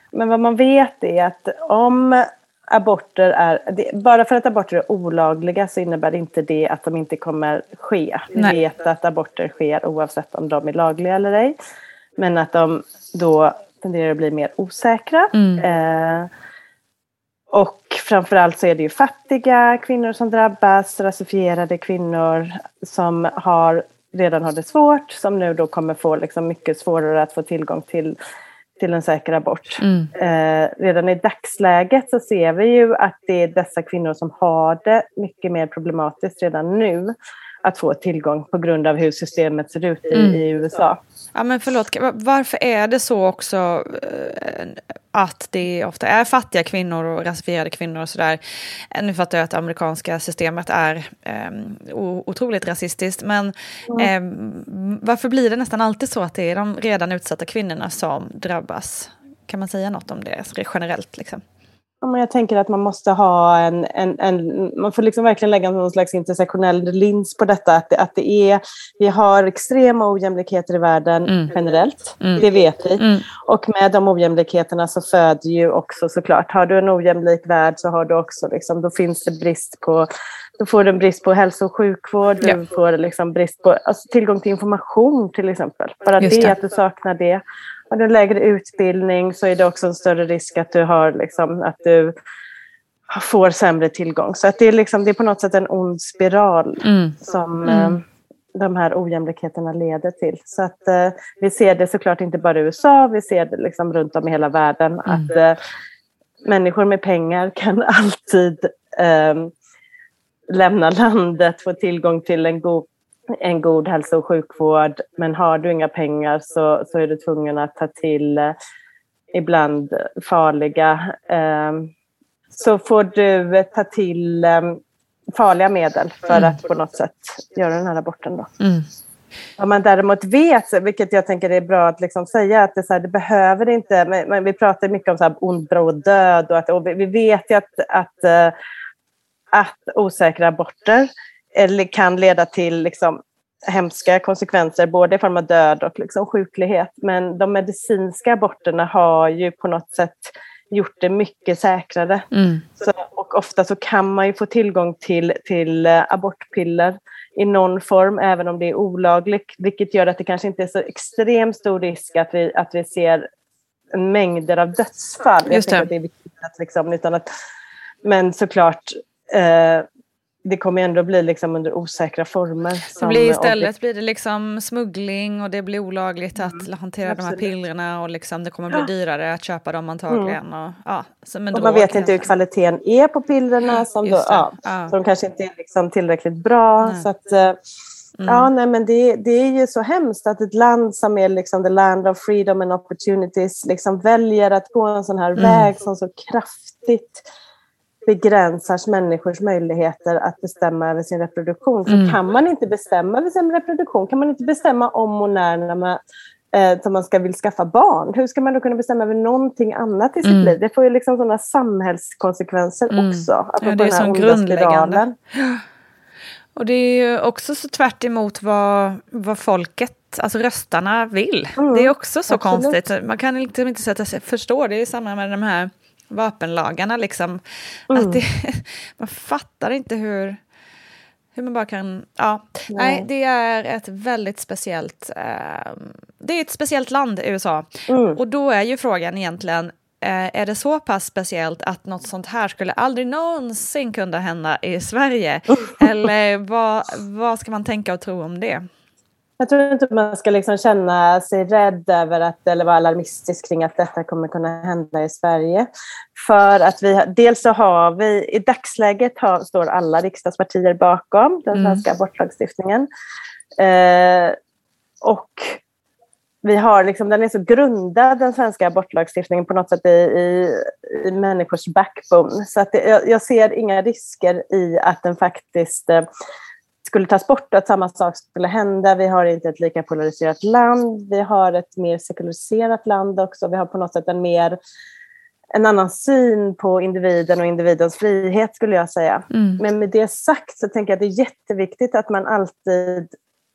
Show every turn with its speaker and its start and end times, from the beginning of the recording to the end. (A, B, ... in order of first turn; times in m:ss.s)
0:00.1-0:11.6 A
0:12.2-0:16.3 A
0:15.3-0:15.6 B
0:17.5-0:28.2 A
0:28.8-0:41.0 A
0:29.8-0:30.1 B
0:40.2-0:40.4 B
0:41.4-0:48.4 B
0:48.9-1:01.4 B
1:02.0-1:20.1 A
1:11.3-1:11.5 B
1:12.2-1:12.4 B
1:13.0-1:13.3 B
1:20.6-1:32.2 A
1:26.2-1:26.6 B
1:33.1-1:38.0 A
1:36.8-1:38.0 B
1:38.6-1:45.6 A
1:45.1-1:45.3 B
1:46.4-1:49.5 A
1:50.5-1:58.5 A
1:59.3-2:01.9 A
2:02.5-2:04.8 A
2:05.3-2:08.5 A
2:06.3-2:06.6 B
2:08.6-2:08.9 B
2:09.6-2:18.6 A
2:19.5-2:32.2 A
2:32.3-2:32.6 B
2:32.8-2:43.3 A
2:43.9-2:47.3 A
2:45.5-2:45.9 B
2:48.0-2:49.9 A
2:50.4-2:53.7 A
2:53.0-3:02.3 B
2:56.4-2:57.5 A
3:00.1-3:00.4 A
3:01.5-3:07.6 A
3:04.0-3:04.9 B
3:08.2-3:08.5 B
3:08.3-3:17.2 A
3:15.4-3:15.7 B
3:18.0-3:26.0 A
3:21.9-3:22.2 B
3:26.5-3:35.2 A
3:30.2-3:30.6 B
3:32.9-3:35.6 B
3:36.6-3:50.4 B
3:41.6-3:42.8 A
3:47.9-3:48.2 A
3:51.4-4:08.7 B
3:52.7-3:53.1 A
3:57.9-3:58.2 A
4:09.4-4:22.9 A
4:21.5-4:21.8 B
4:23.6-4:24.4 A
4:25.0-4:25.6 A
4:26.4-4:36.0 A
4:36.8-4:44.6 A
4:45.5-4:53.1 A
4:49.3-4:49.6 B